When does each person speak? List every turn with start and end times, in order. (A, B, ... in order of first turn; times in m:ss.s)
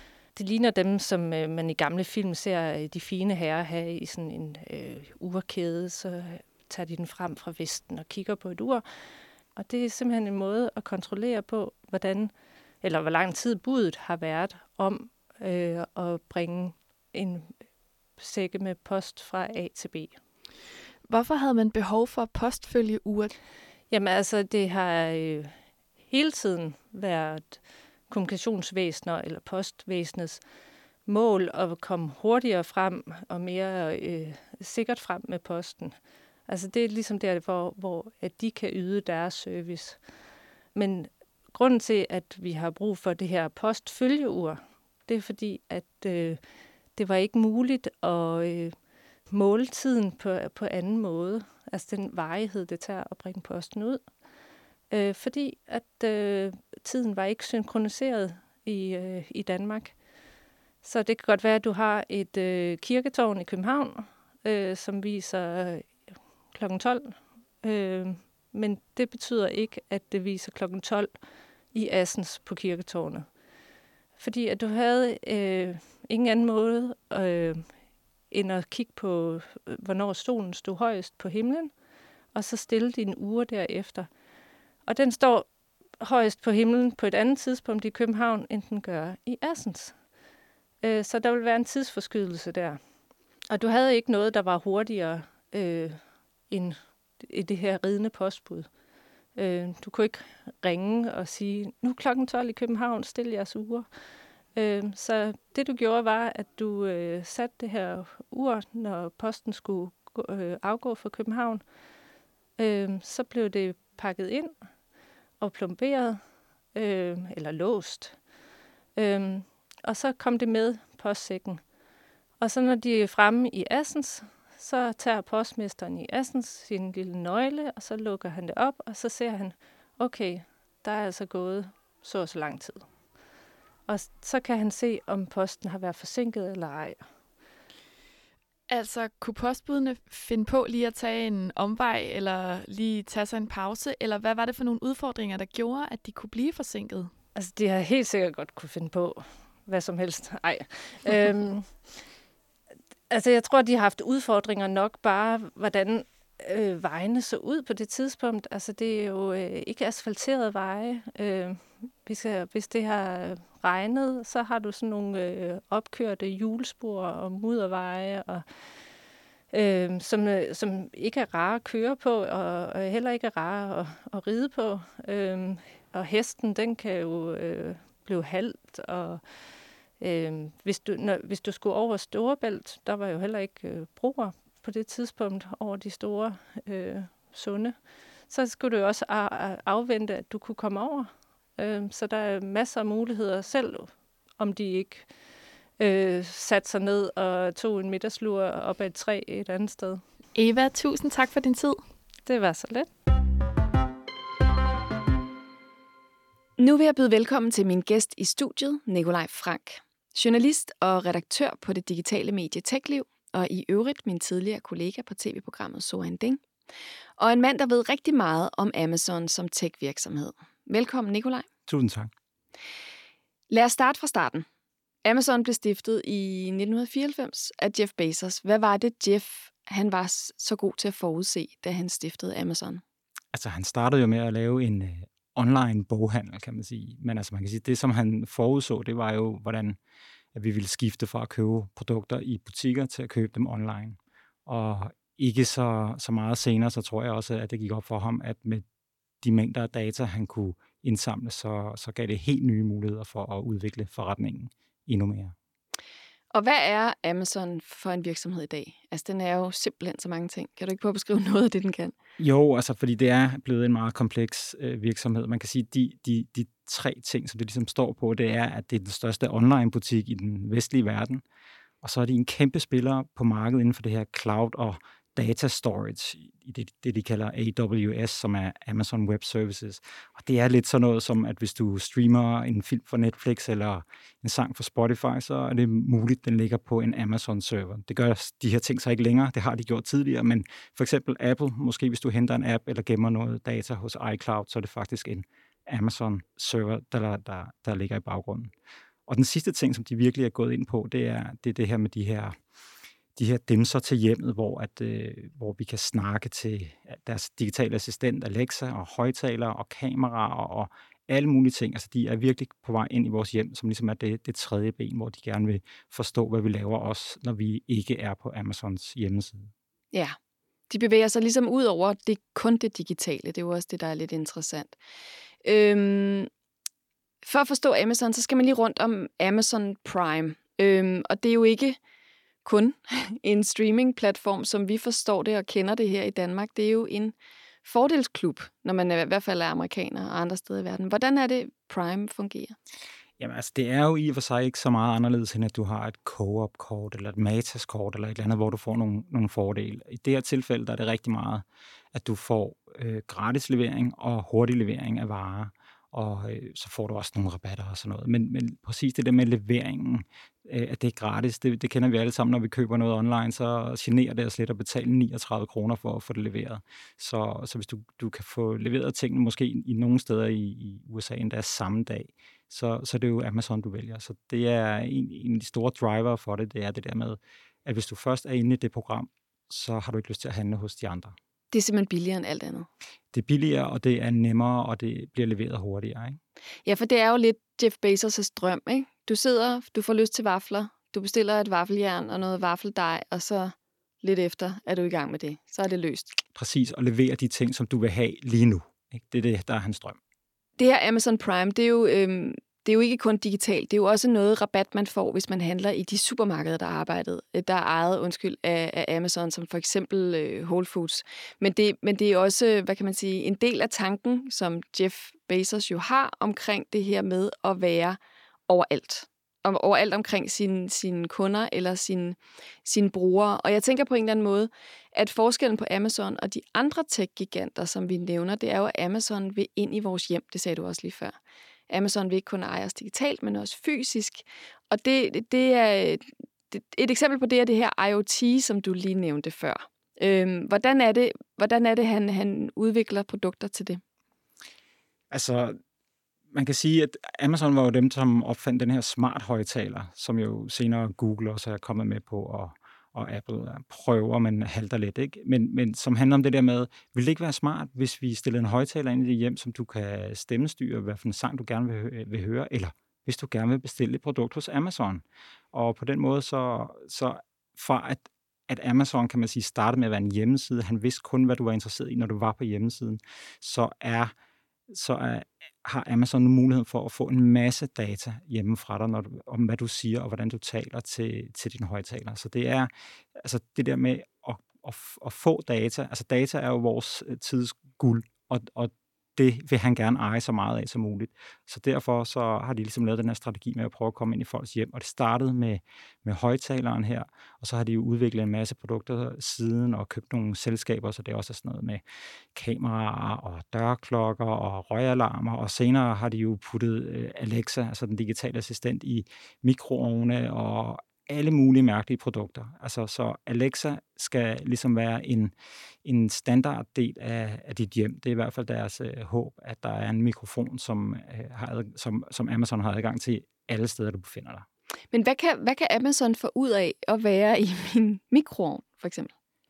0:00.3-0:08.8 A
0:09.5-0:17.6 A
0:18.2-0:20.2 A
0:21.0-0:23.3 B
0:23.9-0:30.4 A
0:31.0-0:40.0 A
0:40.7-0:46.4 A
0:46.9-0:48.8 A
0:49.3-0:54.1 A
0:54.9-1:00.0 A
1:00.8-1:06.0 A
1:06.5-1:11.1 A
1:11.7-1:13.3 A
1:14.2-1:17.8 A
1:18.3-1:21.7 A
1:22.3-1:24.1 A
1:24.8-1:25.5 A
1:26.0-1:30.0 A
1:30.8-1:32.8 A
1:33.5-1:38.7 A
1:39.3-1:43.9 A
1:44.5-1:51.6 A
1:52.6-1:54.6 A
1:55.4-1:56.2 A
1:56.7-1:58.2 A
1:58.9-2:01.7 A
2:02.4-2:13.0 A
2:13.8-2:17.1 A
2:18.7-2:27.1 B
2:27.3-2:31.8 A
2:33.1-2:48.7 A
2:49.5-2:59.2 A
3:00.0-3:15.1 A
3:15.8-3:20.0 A
3:20.3-3:21.8 B
3:22.2-3:22.9 A
3:26.6-3:36.4 C
3:37.2-3:41.5 C
3:41.7-3:42.1 D
3:43.5-3:44.4 C
3:45.0-3:52.8 C
3:53.3-3:59.8 D
4:00.3-4:08.6 D
4:09.2-4:15.3 D
4:16.3-4:21.9 C
4:22.2-4:31.2 D
4:31.8-4:58.5 D
4:59.1-5:02.4 D
5:03.2-5:19.5 D
5:20.7-5:24.8 C
5:25.4-5:26.3 C
5:27.2-5:31.8 C
5:32.4-5:42.6 C
5:43.2-6:21.1 D
6:21.5-6:22.7 C
6:23.1-6:26.2 D
6:26.6-6:36.2 C
6:36.3-6:40.0 D
6:40.6-7:11.2 C
7:11.7-7:23.8 C
7:25.1-7:25.6 D
7:26.3-7:54.1 D
7:54.7-8:21.8 D
8:22.3-8:35.3 D
8:35.8-8:44.4 D
8:44.9-8:49.1 C